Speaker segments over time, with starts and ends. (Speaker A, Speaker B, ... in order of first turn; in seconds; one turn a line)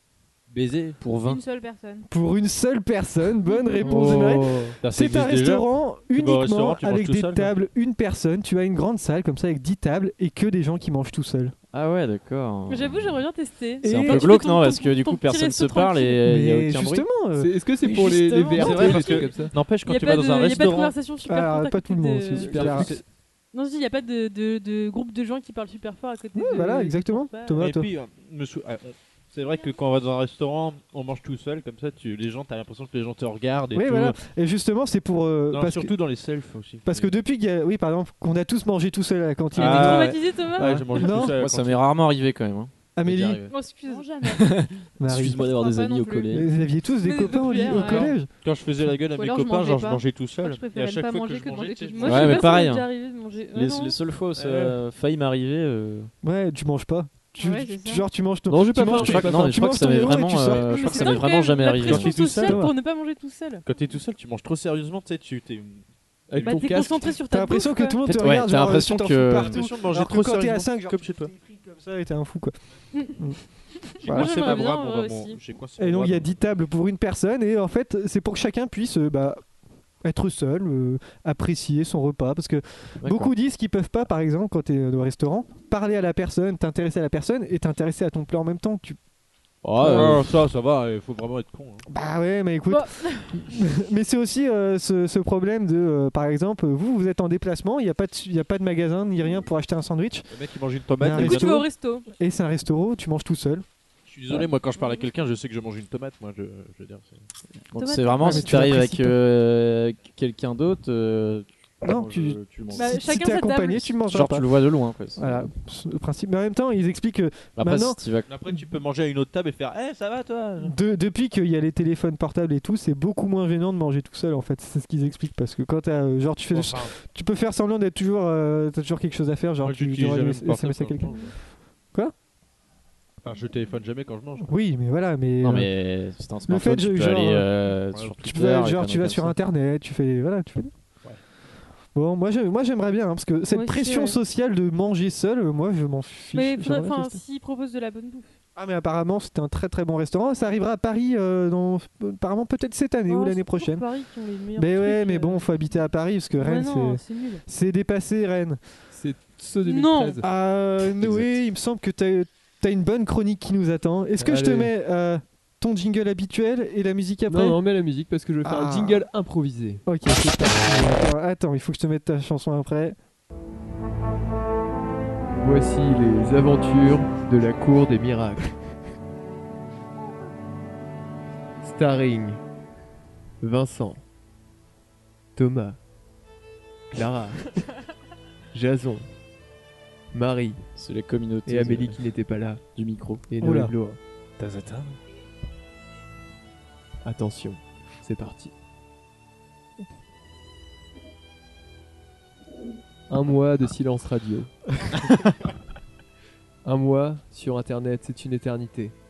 Speaker A: 0.5-1.0
Speaker B: 1.0-1.4
Speaker C: 1.2-2.1
Speaker D: 2.1-11.5
Speaker E: 3.8-4.8
Speaker A: 4.8-7.5
Speaker B: 11.7-13.1
Speaker F: 12.7-16.2
Speaker D: 13.8-14.3
Speaker B: 13.8-17.1
Speaker D: 16.2-19.1
Speaker E: 17.4-19.5
Speaker A: 18.5-20.9
Speaker F: 18.6-19.2
Speaker F: 19.8-22.7
Speaker D: 21.2-23.0
Speaker A: 22.4-23.0
Speaker E: 22.5-23.0
Speaker F: 23.5-27.6
Speaker D: 26.3-27.9
Speaker A: 27.6-34.2
Speaker D: 33.7-35.9
Speaker A: 35.5-37.2
Speaker D: 36.8-41.4
Speaker F: 39.5-40.9
Speaker A: 39.5-41.9
Speaker B: 41.2-43.5
Speaker D: 43.0-43.4
Speaker F: 43.5-44.4
Speaker C: 43.8-44.6
Speaker B: 44.4-46.5
Speaker D: 45.0-45.5
Speaker C: 45.4-46.4
Speaker D: 46.3-48.3
Speaker F: 47.0-48.1
Speaker C: 47.6-48.1
Speaker A: 48.4-52.4
Speaker C: 49.1-52.7
Speaker F: 52.0-54.0
Speaker B: 52.0-52.9
Speaker B: 53.5-56.1
Speaker A: 54.4-54.8
Speaker D: 56.2-61.2
Speaker C: 57.4-58.1
Speaker E: 58.5-59.2
Speaker B: 58.9-62.1
Speaker A: 58.9-59.3
Speaker F: 60.6-63.6
Speaker A: 61.8-62.6
Speaker D: 61.9-62.7
Speaker A: 63.6-66.7
Speaker E: 66.3-67.1
Speaker F: 66.4-68.0
Speaker D: 67.3-72.5
Speaker B: 68.0-69.6
Speaker A: 69.2-71.3
Speaker F: 73.9-75.4
Speaker D: 74.0-74.5
Speaker A: 74.0-76.4
Speaker D: 75.8-79.4
Speaker D: 80.0-89.0
Speaker B: 83.0-83.3
Speaker B: 89.6-90.3
Speaker A: 89.8-91.8
Speaker D: 89.8-90.2
Speaker D: 91.9-100.3
Speaker F: 92.7-93.4
Speaker A: 100.3-101.6
Speaker D: 101.0-103.6
Speaker F: 101.2-102.1
Speaker A: 104.1-107.2
Speaker B: 107.7-113.0
Speaker F: 107.7-108.5
Speaker D: 108.2-109.2
Speaker D: 111.8-114.5
Speaker F: 112.7-114.0
Speaker B: 114.0-115.5
Speaker D: 115.2-118.0
Speaker B: 117.5-118.3
Speaker A: 118.3-120.8
Speaker D: 120.6-131.3
Speaker A: 126.5-126.9
Speaker A: 129.6-131.3
Speaker A: 133.2-134.5
Speaker D: 134.4-135.7
Speaker B: 135.4-139.3
Speaker D: 136.5-137.5
Speaker A: 137.9-138.2
Speaker D: 138.2-140.7
Speaker D: 141.9-147.2
Speaker F: 143.5-144.2
Speaker F: 146.3-148.3
Speaker D: 148.6-153.8
Speaker F: 153.1-155.5
Speaker D: 154.6-158.6
Speaker F: 156.4-157.4
Speaker E: 158.9-160.3
Speaker F: 159.6-160.2
Speaker D: 160.2-167.6
Speaker E: 164.2-164.7
Speaker E: 167.3-169.8
Speaker D: 168.4-169.0
Speaker D: 169.8-173.0
Speaker E: 175.4-178.5
Speaker E: 181.6-182.4
Speaker E: 183.4-184.0
Speaker E: 185.3-185.8
Speaker E: 186.9-187.7
Speaker E: 188.5-189.1
Speaker E: 190.1-190.6
Speaker B: 190.8-192.0
Speaker E: 191.4-192.6
Speaker B: 192.7-193.2
Speaker E: 193.3-194.0
Speaker D: 193.4-193.7
Speaker A: 194.4-195.0
Speaker E: 197.0-198.5
Speaker E: 203.1-204.5
Speaker E: 206.6-208.9